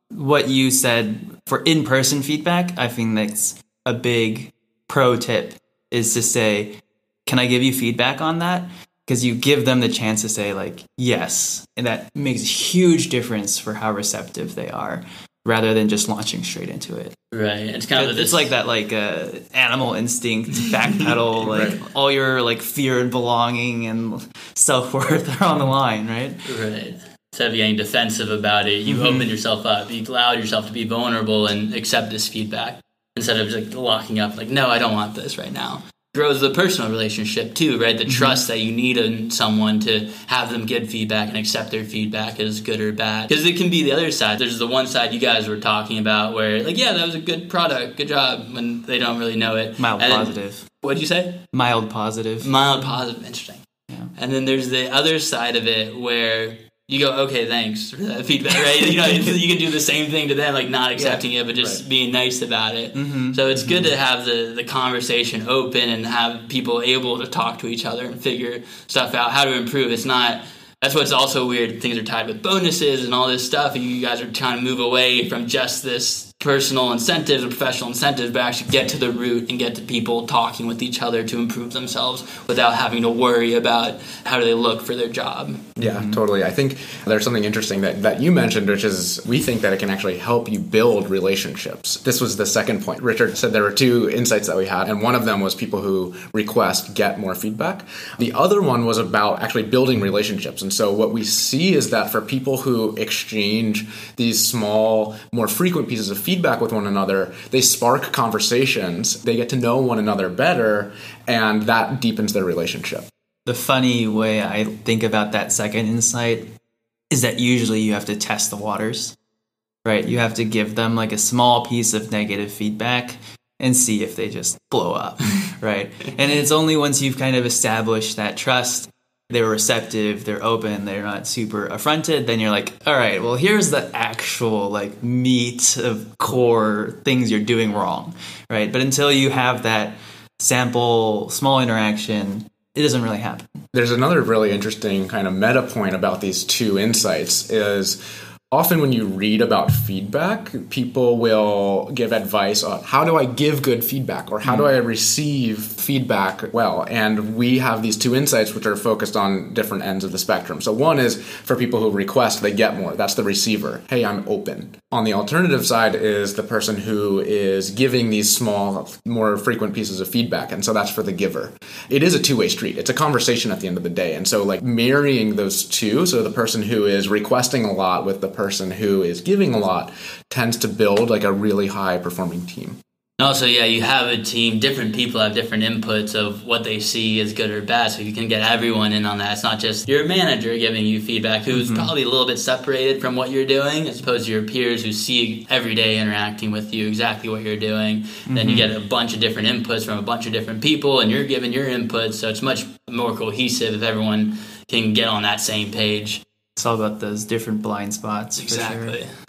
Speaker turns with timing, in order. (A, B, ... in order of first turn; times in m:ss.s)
0:00.1-0:17.2 A
0:17.3-0:18.5 B
0:18.0-0:26.4 A
0:21.5-0:21.8 C
0:26.4-0:51.4 B
0:28.9-0:29.3 A
0:38.1-0:38.4 A
0:49.8-0:50.6 A
0:51.5-0:52.5 A
0:52.4-0:53.6 B
0:54.2-1:25.7 B
1:01.0-1:01.2 A
1:02.9-1:03.9 A
1:25.8-1:53.1 C
1:25.8-1:26.2 A
1:53.4-1:56.5 A
1:57.1-1:59.2 A
1:59.8-2:23.6 A
2:23.7-3:02.8 C
3:03.2-3:26.2 B
3:11.5-3:11.9 A
3:18.3-3:18.7 A
3:26.6-3:29.0 A
3:28.4-3:29.1 B